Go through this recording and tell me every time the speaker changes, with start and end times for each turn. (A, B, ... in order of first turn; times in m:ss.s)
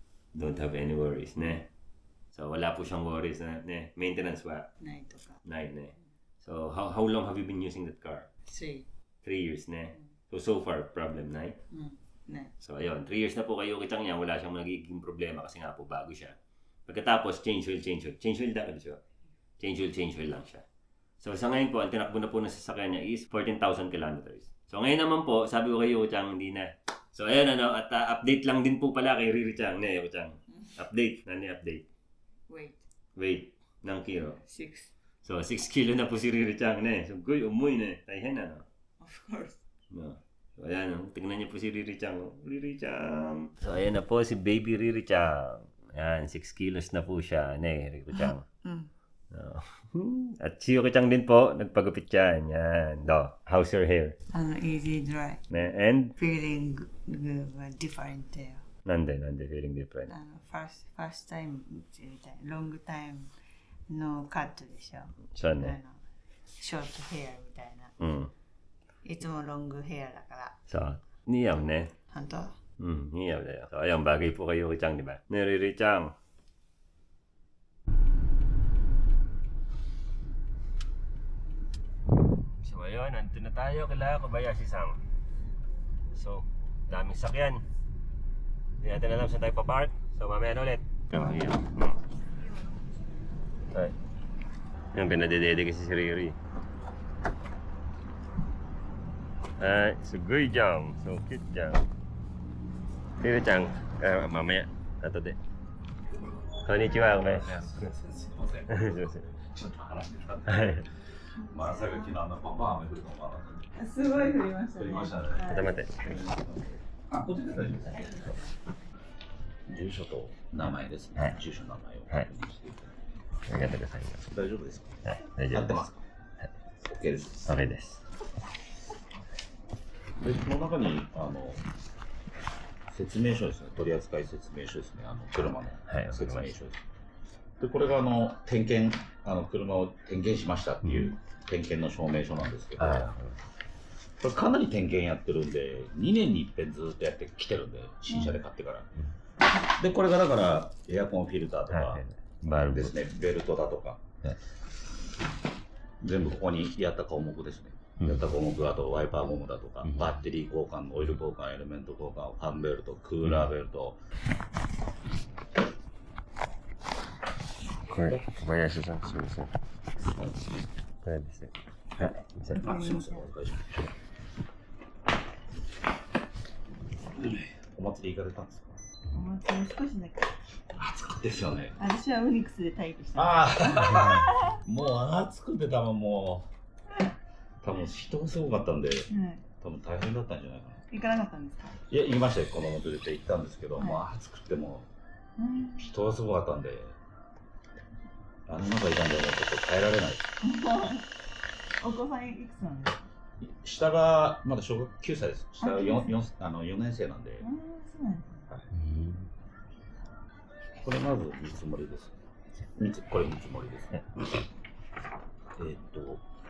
0:00.3-0:01.7 A
0:02.3-0:04.7 A
0:04.8-0:05.4 B
0:05.4-0:08.3 A
0:08.5-0:08.8 B
0:09.2-0:11.6 A
0:11.7-0:12.5 B
0:12.6-0:16.4 A
0:16.9-0:19.0 A
0:19.6-0:20.6 A
0:21.2-0:31.8 A
0:32.5-0:32.8 B
0:33.2-0:34.4 A
0:34.4-0:34.9 B
0:35.2-0:38.6 A
0:39.0-0:39.6 B
0:39.9-0:48.4 A
0:48.1-0:48.9 B
0:49.3-0:54.2 A
0:54.3-0:55.4 B
0:55.5-0:56.2 A
0:56.2-0:58.6 B
0:58.8-1:00.1 A
1:00.1-1:03.3 B
1:03.9-1:06.0 B
1:05.3-1:05.8 A
1:06.6-1:07.9 B
1:08.0-1:08.3 A
1:09.0-1:10.6 B
1:10.7-1:11.9 A
1:12.1-1:12.5 B
1:12.8-1:16.1 A
1:22.6-1:25.0 A
1:26.1-1:27.6 A
1:28.8-1:32.0 A
1:34.9-1:36.4 A
1:39.6-1:41.8 A
1:43.2-1:45.4 A
1:46.6-1:47.9 A
1:47.3-1:58.2 C
1:48.7-1:49.2 A
1:50.5-1:50.8 A
1:51.4-1:52.1 B
1:53.8-1:55.8 B
1:55.4-1:56.0 A
1:57.9-1:58.5 B
1:59.7-2:02.9 C
2:03.5-2:04.2 A
2:04.3-2:05.0 C
2:05.0-2:05.8 A
2:05.5-2:06.0 C
2:06.8-2:07.4 C
2:07.4-2:08.0 A
2:10.2-2:11.6 C
2:12.9-2:16.8 C
2:15.9-2:16.6 A
2:17.6-2:23.1 C
2:20.8-2:21.1 A
2:22.8-2:23.4 A
2:24.2-2:28.9 C
2:29.6-2:32.0 C
2:31.7-2:33.0 A
2:32.7-2:34.0 C
2:36.0-2:44.0 C
2:39.8-2:40.2 A
2:43.2-2:43.5 A
2:47.9-2:49.5 A
2:51.0-2:52.7 A
2:52.0-2:53.9 C
2:52.6-2:53.2 B
2:57.2-2:58.8 C
2:59.1-3:00.3 B
3:00.7-3:01.8 C
3:01.8-3:04.6 B
3:03.1-3:06.5 C
3:07.6-3:09.1 C
3:09.1-3:09.4 B
3:09.6-3:10.8 C
3:10.9-3:11.8 B
3:11.9-3:14.9 C
3:13.8-3:14.0 B
3:15.4-3:15.9 B
3:15.8-3:16.9 C
3:18.5-3:20.2 C
3:20.4-3:21.1 B
3:21.8-3:23.0 B
3:23.4-3:27.4 C
3:25.6-3:26.1 B
3:27.4-3:28.4 B
3:28.6-3:29.3 A
3:30.8-3:32.1 C
3:32.8-3:34.0 C
3:35.6-3:36.2 C